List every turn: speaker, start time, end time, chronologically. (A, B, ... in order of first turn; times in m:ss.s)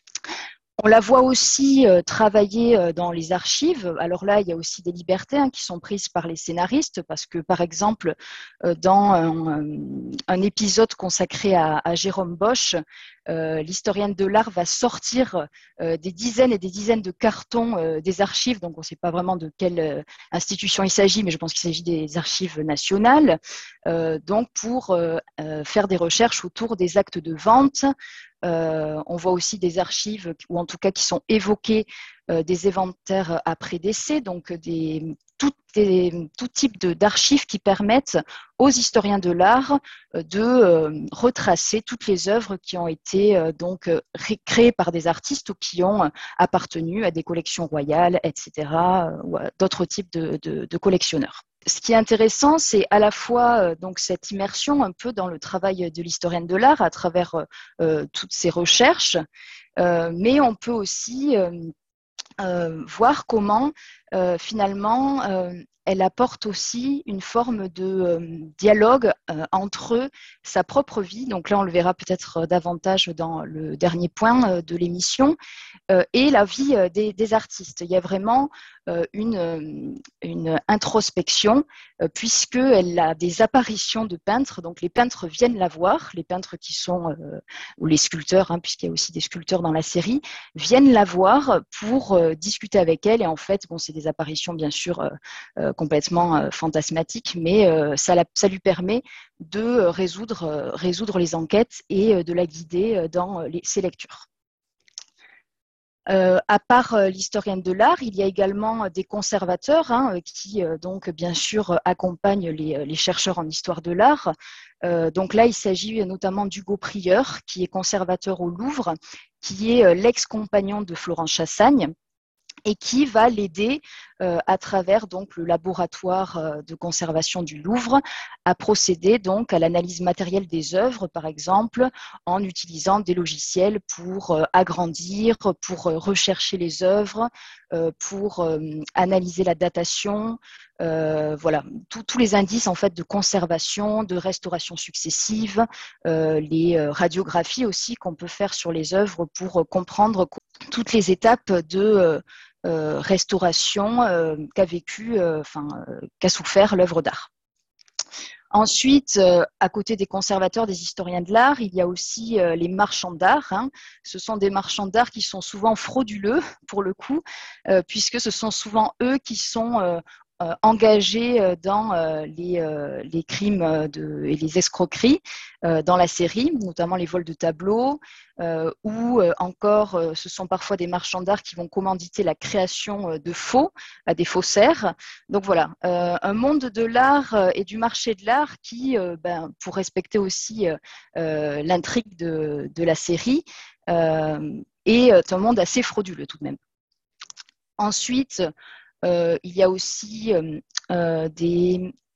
0:00.8-0:27.9 A
0:28.4-0:59.2 A
0:59.8-1:01.7 A
1:02.4-1:15.4 A
1:15.9-1:44.2 A
1:46.1-2:01.9 A
2:02.6-2:37.3 A
2:38.5-3:16.6 A
3:17.8-3:18.5 A
3:19.0-3:21.9 A